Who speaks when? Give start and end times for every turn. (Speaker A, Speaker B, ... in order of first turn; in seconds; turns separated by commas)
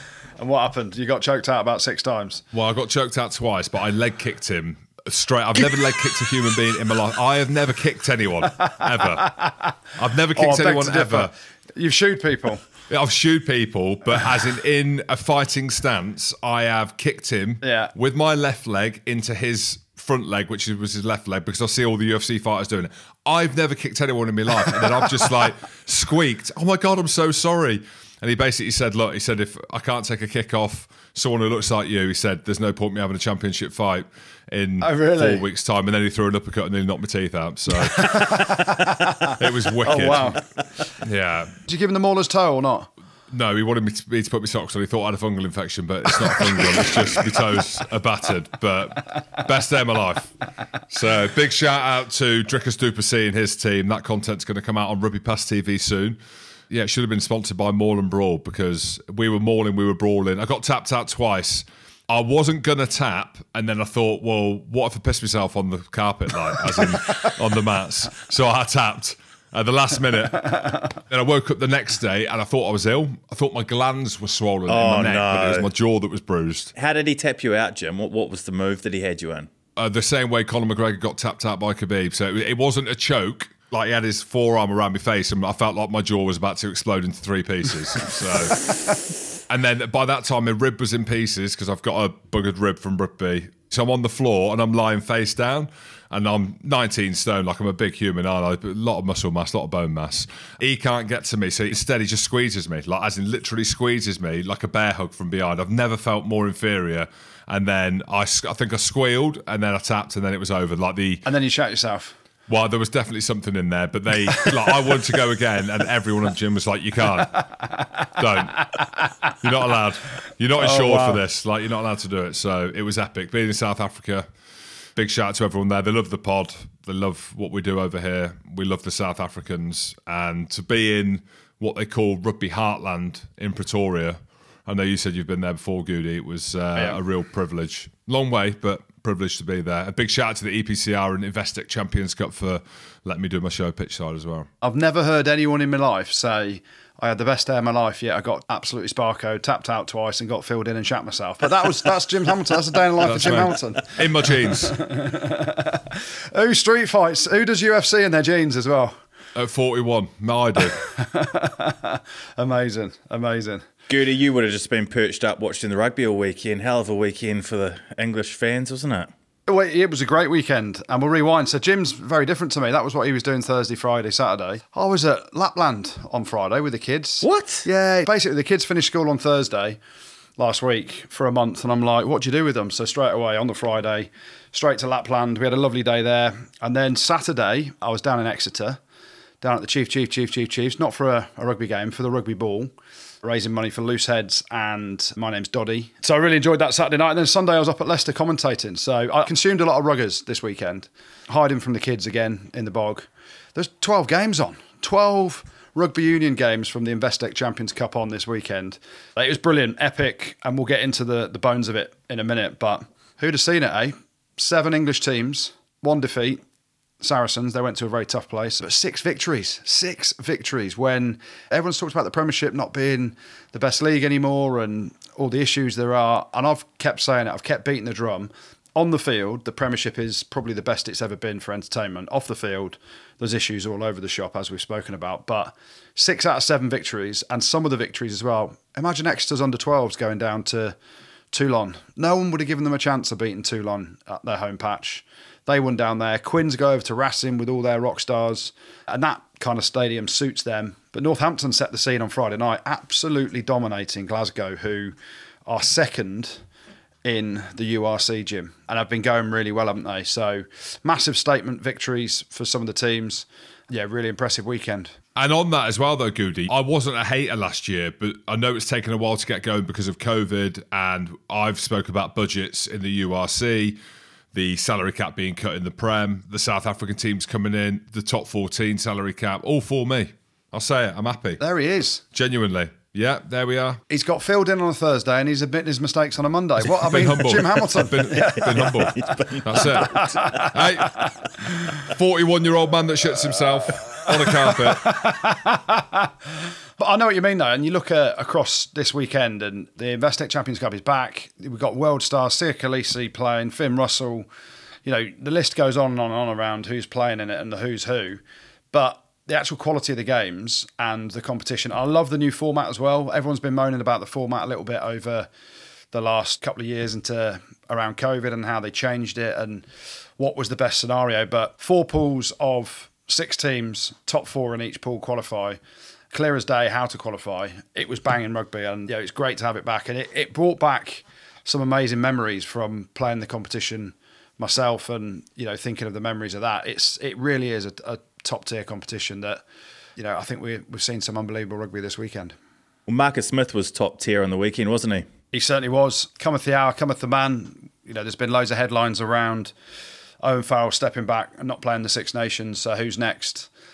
Speaker A: 0.4-2.4, Speaker B: 2.5-11.3, Speaker A: 10.3-12.6, Speaker B: 12.9-38.6, Speaker A: 17.6-17.9, Speaker A: 34.8-35.4, Speaker A: 37.8-40.4, Speaker B: 39.4-40.4, Speaker B: 41.0-41.5, Speaker A: 41.6-42.9, Speaker B: 43.3-56.2, Speaker A: 46.6-46.9, Speaker B: 56.7-76.7, Speaker C: 74.7-75.7, Speaker C: 76.7-79.5, Speaker B: 79.8-88.8, Speaker B: 89.5-111.2, Speaker A: 111.2-112.1, Speaker B: 112.5-117.6, Speaker B: 118.1-124.2, Speaker A: 120.6-121.2, Speaker B: 125.0-144.5, Speaker A: 144.6-158.9, Speaker B: 153.0-154.8, Speaker B: 159.3-160.8, Speaker A: 160.8-163.6, Speaker C: 163.9-169.1, Speaker A: 169.5-179.8, Speaker C: 177.2-177.7, Speaker A: 180.4-188.8, Speaker A: 189.4-216.4, Speaker A: 217.0-240.7, Speaker A: 241.3-254.9, Speaker A: 255.4-256.4, Speaker A: 257.0-265.0, Speaker B: 265.1-273.8, Speaker B: 274.3-281.4, Speaker A: 281.4-282.0, Speaker B: 282.1-283.8, Speaker A: 283.9-289.1, Speaker B: 286.8-294.9, Speaker C: 288.2-290.2, Speaker A: 289.6-290.6, Speaker A: 293.8-296.1, Speaker A: 296.8-304.3, Speaker A: 304.8-308.2, Speaker A: 308.7-315.3, Speaker A: 315.9-319.6, Speaker A: 320.2-325.6, Speaker A: 326.1-339.4, Speaker A: 340.0-342.4, Speaker C: 342.9-345.1, Speaker A: 345.3-349.5, Speaker A: 350.2-353.5